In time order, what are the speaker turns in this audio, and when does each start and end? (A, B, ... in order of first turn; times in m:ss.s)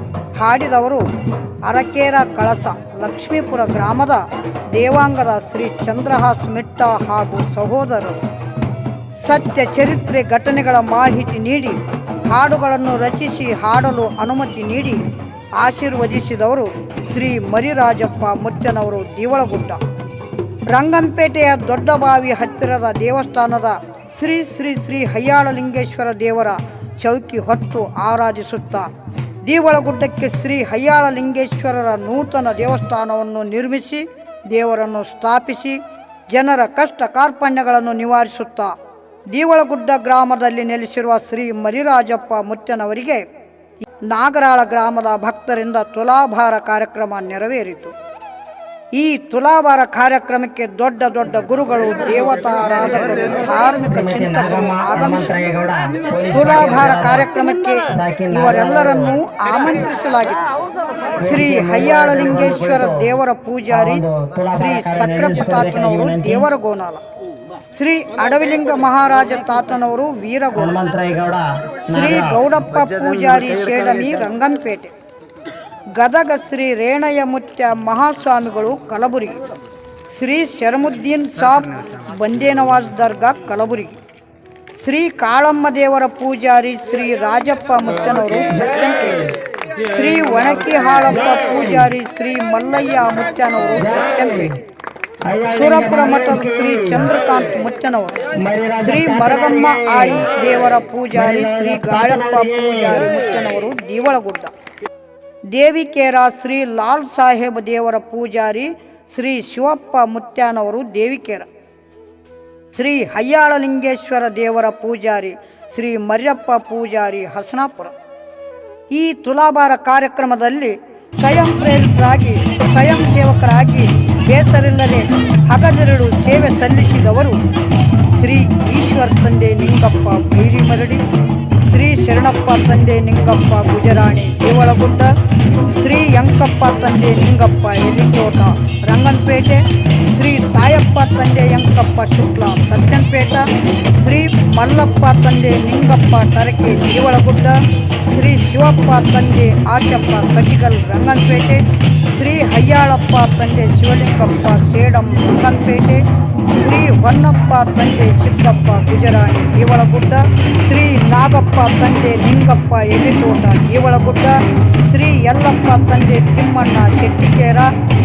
0:00.4-0:01.1 A
0:01.6-0:08.2 A
0:09.2-0:15.0 A
0:15.6-0:19.8 A
0:20.7-0:28.9 A
0:29.4-0:38.7 A
0:39.3-0:43.3 A
0:44.0-0:47.9 A
0:48.9-0:55.3 A
0:53.8-0:57.3 B
0:56.3-1:00.4 A
0:57.9-0:59.2 B
1:01.2-1:03.1 B
1:01.2-1:07.0 A
1:03.7-1:06.5 B
1:07.7-1:10.8 A
1:10.6-1:12.4 B
1:11.9-1:14.9 A
1:16.0-1:19.4 A
1:20.1-1:24.0 A
1:24.8-1:29.3 A
1:29.9-1:34.5 A
1:33.8-1:34.5 B
1:35.2-1:37.1 B
1:35.5-1:38.2 A
1:38.3-1:40.4 B
1:38.8-1:44.5 A
1:41.1-1:43.1 B
1:45.5-1:51.5 A
1:52.7-1:57.9 A
1:58.9-2:07.4 A
2:08.1-2:11.0 A
2:11.7-2:15.1 A
2:15.8-2:23.5 A
2:24.0-2:27.6 A
2:28.1-2:44.4 A
2:44.9-2:47.7 A